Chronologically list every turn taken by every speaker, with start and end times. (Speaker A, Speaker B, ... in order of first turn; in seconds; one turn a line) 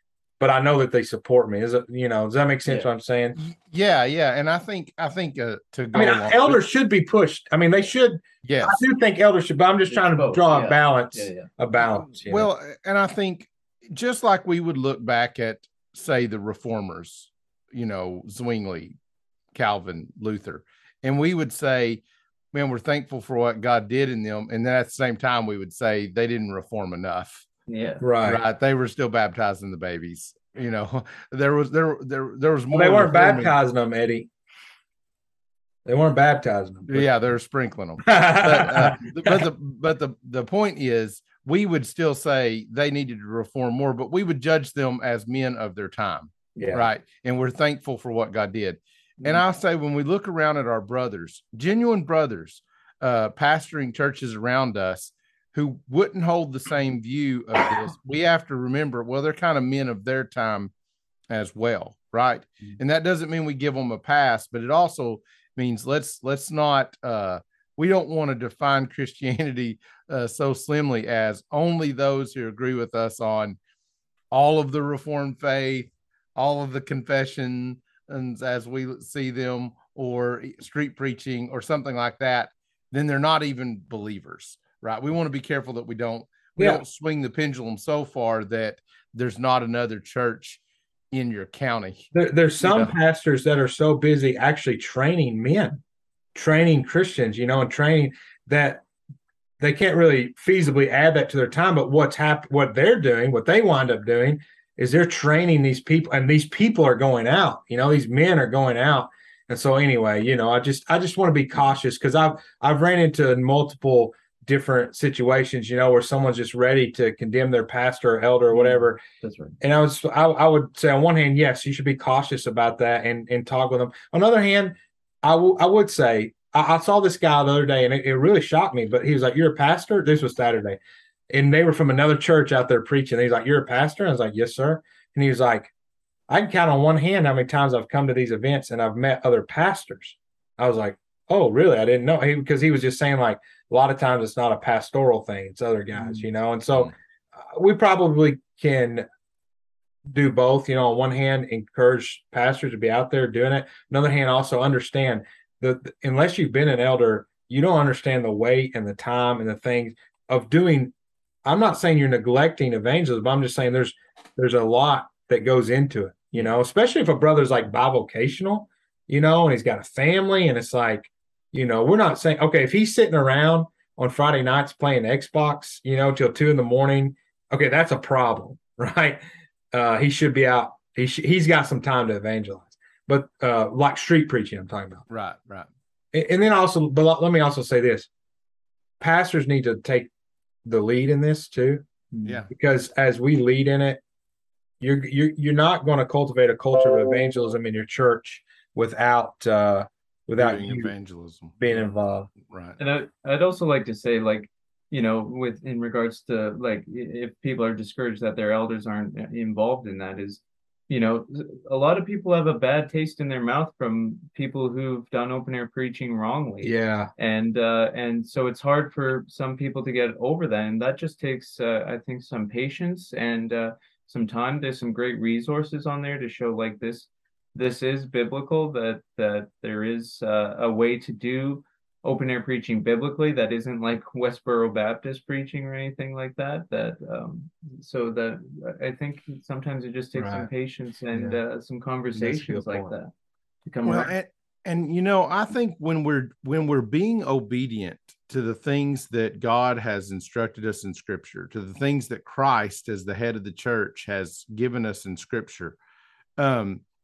Speaker A: 0.4-3.4
Speaker B: 3.4-6.6
Speaker A: 5.9-12.5
Speaker B: 8.4-8.8
Speaker C: 9.9-11.5
Speaker B: 12.1-18.9
Speaker B: 19.5-22.0
Speaker B: 22.5-27.5
Speaker C: 27.7-28.0
Speaker A: 28.0-28.4
Speaker B: 28.2-33.5
Speaker A: 32.7-34.3
Speaker A: 35.8-37.1
Speaker B: 36.9-60.7
Speaker A: 38.0-39.4
Speaker A: 46.5-46.9
Speaker B: 61.3-73.6
Speaker B: 74.3-90.6
Speaker A: 86.6-86.8
Speaker B: 91.1-92.1
Speaker A: 92.1-95.8
Speaker B: 92.6-92.9
Speaker A: 96.3-98.8
Speaker A: 99.6-119.0
Speaker C: 118.5-119.5
Speaker A: 119.6-130.8
Speaker A: 131.3-135.7
Speaker A: 136.3-146.9
Speaker C: 146.0-146.2
Speaker A: 147.5-149.0
Speaker A: 150.1-160.9
Speaker A: 161.4-179.2
Speaker A: 179.7-185.0
Speaker B: 185.1-185.7
Speaker A: 186.1-188.1
Speaker A: 189.0-190.1
Speaker A: 190.6-191.8
Speaker C: 192.1-192.4
Speaker A: 192.5-194.0
Speaker A: 194.8-200.9
Speaker B: 200.3-201.6
Speaker A: 201.6-202.3
Speaker B: 202.4-202.8
Speaker C: 202.8-243.1
Speaker A: 216.6-217.1
Speaker A: 240.1-240.5
Speaker A: 241.1-241.4
Speaker A: 242.1-242.9
Speaker C: 243.6-244.1
Speaker B: 243.8-255.8
Speaker B: 256.4-256.8